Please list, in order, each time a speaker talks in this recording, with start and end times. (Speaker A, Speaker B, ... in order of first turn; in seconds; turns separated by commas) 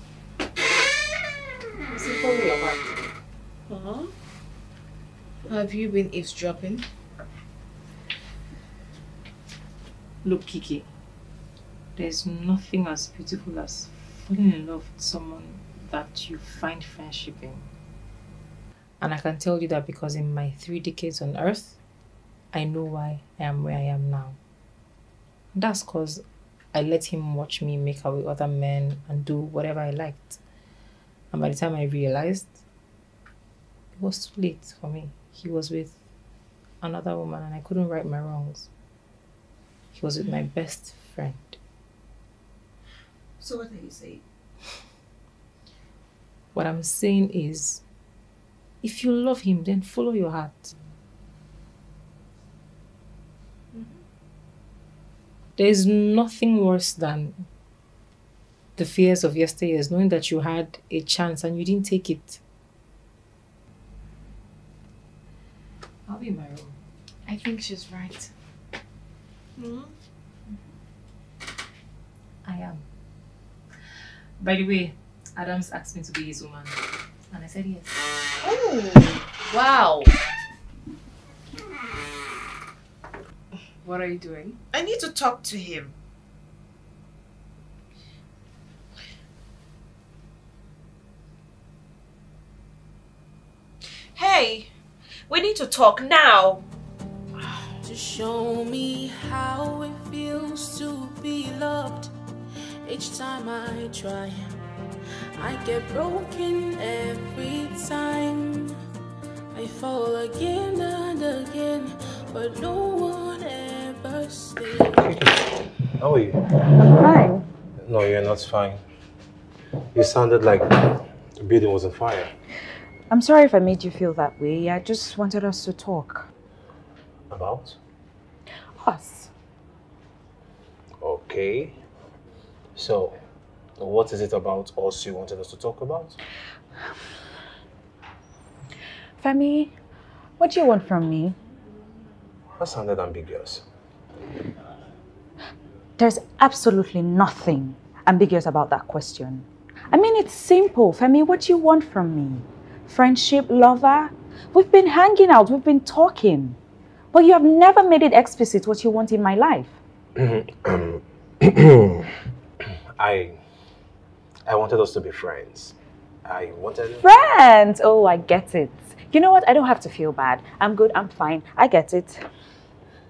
Speaker A: 1.9-3.0, Speaker B: 3.7-4.1, Speaker C: 5.5-6.8, Speaker A: 10.2-10.9, Speaker A: 11.9-17.7, Speaker A: 19.0-21.8, Speaker A: 22.5-24.4, Speaker A: 25.5-30.4, Speaker A: 31.3-32.6, Speaker A: 34.0-36.0, Speaker A: 36.8-38.7, Speaker A: 39.9-41.6, Speaker B: 43.4-44.2, Speaker A: 46.5-47.8, Speaker A: 48.8-50.7, Speaker A: 55.6-57.5, Speaker A: 58.8-62.4, Speaker A: 66.1-66.8, Speaker C: 67.3-68.3, Speaker B: 69.6-69.9, Speaker A: 72.4-72.8, Speaker A: 74.4-77.8, Speaker C: 78.4-80.1, Speaker C: 83.8-84.6, Speaker B: 84.7-85.9, Speaker D: 94.2-94.7, Speaker D: 95.3-96.6, Speaker E: 97.8-102.1, Speaker E: 102.8-104.5, Speaker E: 105.4-108.8, Speaker E: 109.5-115.1, Speaker F: 114.9-115.5, Speaker F: 116.0-116.4, Speaker D: 116.8-117.4, Speaker F: 117.8-118.8, Speaker F: 119.9-122.3, Speaker D: 123.1-126.3, Speaker F: 127.3-127.8, Speaker D: 128.8-129.3, Speaker F: 131.0-131.8, Speaker F: 132.8-133.2, Speaker F: 133.8-136.2, Speaker D: 139.2-139.7, Speaker D: 140.4-141.4, Speaker F: 142.6-143.6, Speaker D: 146.0-156.6, Speaker D: 157.1-159.7, Speaker F: 160.2-163.4, Speaker F: 164.4-167.1, Speaker D: 167.0-172.3